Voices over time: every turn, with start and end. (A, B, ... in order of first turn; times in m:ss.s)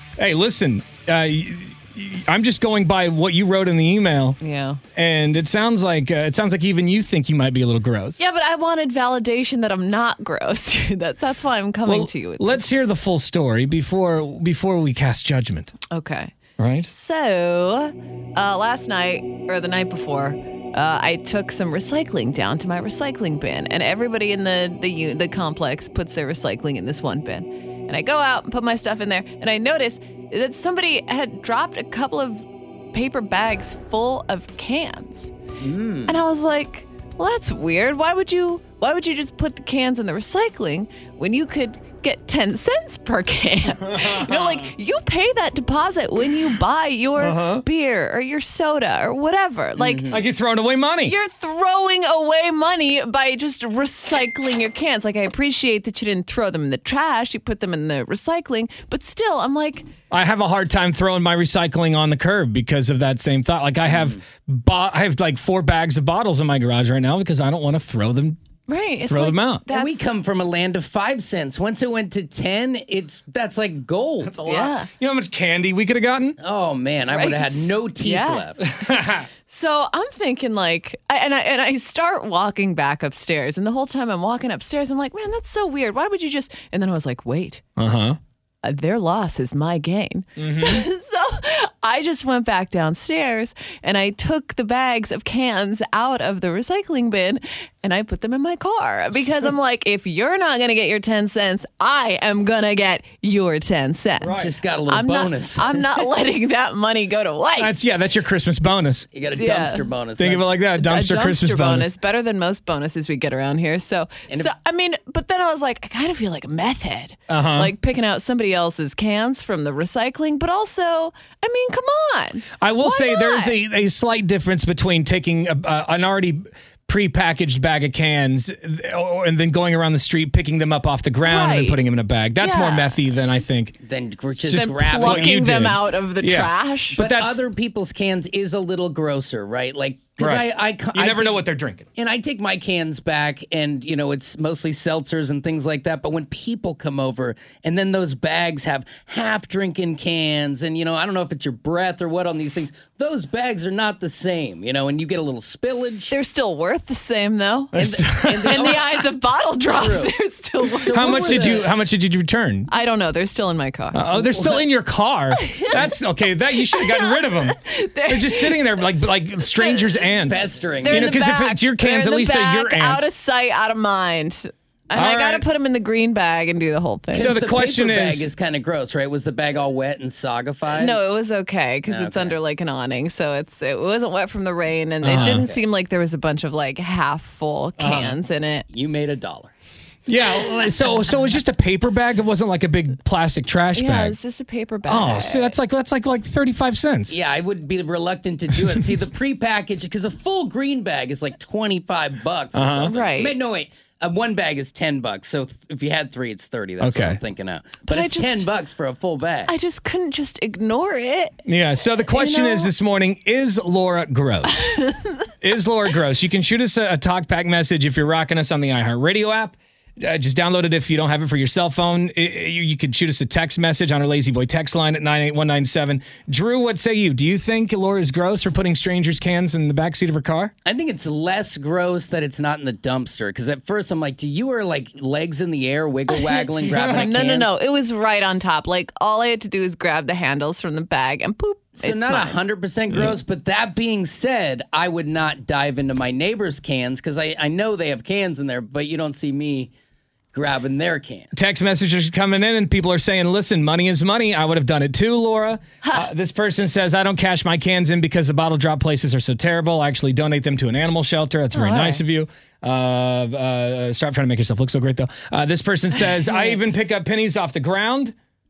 0:00.2-0:04.4 A
0:04.4-0:04.8 B
0:05.0-0:08.2 A
0:08.2-0:12.7 B
0:11.9-0:15.7 A
0:15.9-0:35.3 B
0:16.6-0:16.9 A
0:35.6-0:36.2 C
0:36.1-0:50.1 B
0:44.0-0:44.3 A
0:47.2-0:47.6 A
0:49.8-0:50.2 C
0:50.1-0:51.2 A
0:51.0-0:59.9 B
1:00.1-1:08.4 A
1:03.8-1:04.2 C
1:08.7-1:10.0 B
1:09.1-1:09.6 A
1:09.7-1:14.3 C
1:14.2-1:16.4 A
1:14.4-1:14.9 B
1:16.4-1:18.6 C
1:17.1-1:18.5 B
1:18.7-1:19.2 A
1:19.5-1:27.6 B
1:27.8-1:28.2 A
1:28.6-1:47.8 B
1:30.4-1:30.9 A
1:44.2-1:44.5 A
1:44.4-1:45.9 C
1:47.6-1:49.1 A
1:49.1-1:50.6 C
1:49.4-1:49.9 B
1:50.2-1:51.9 A
1:50.7-2:03.6 B
1:57.3-1:57.7 A
2:02.6-2:13.8 A
2:11.2-2:11.8 B
2:12.4-2:13.0 B
2:13.8-2:15.3 C
2:14.4-2:17.4 A
2:14.6-2:17.0 B
2:16.9-2:21.4 C
2:20.2-2:21.9 A
2:22.0-2:36.1 C
2:36.1-2:37.7 B
2:37.7-2:38.8 A
2:37.8-2:39.1 C
2:38.4-2:41.6 B
2:39.7-2:40.2 C
2:40.7-2:41.8 C
2:40.9-2:42.7 A
2:42.7-2:44.0 B
2:43.9-2:53.1 A
2:44.1-2:44.7 C
2:45.4-2:45.8 B
2:46.6-2:48.7 B
2:49.5-2:57.3 B
2:50.2-2:51.2 C
2:55.0-2:55.4 A
2:57.1-3:01.0 C
2:57.1-2:58.3 A
3:00.7-3:08.7 B
3:01.9-3:02.4 C
3:05.0-3:05.5 A
3:05.1-3:05.6 C
3:07.8-3:08.2 A
3:08.7-3:09.5 C
3:10.1-3:14.2 A
3:13.7-3:15.6 B
3:14.9-3:17.2 A
3:17.1-3:29.5 C
3:22.5-3:22.9 A
3:22.9-3:23.4 B
3:26.8-3:27.2 A
3:27.9-3:28.4 B
3:29.5-3:31.4 B
3:31.5-3:50.5 A
3:32.1-3:32.7 B
3:50.6-3:57.5 C
3:56.1-4:02.4 B
3:56.7-3:57.1 A
4:01.8-4:09.7 C
4:10.3-4:11.3 C
4:11.3-4:28.1 A
4:21.5-4:22.0 B
4:26.2-4:26.6 B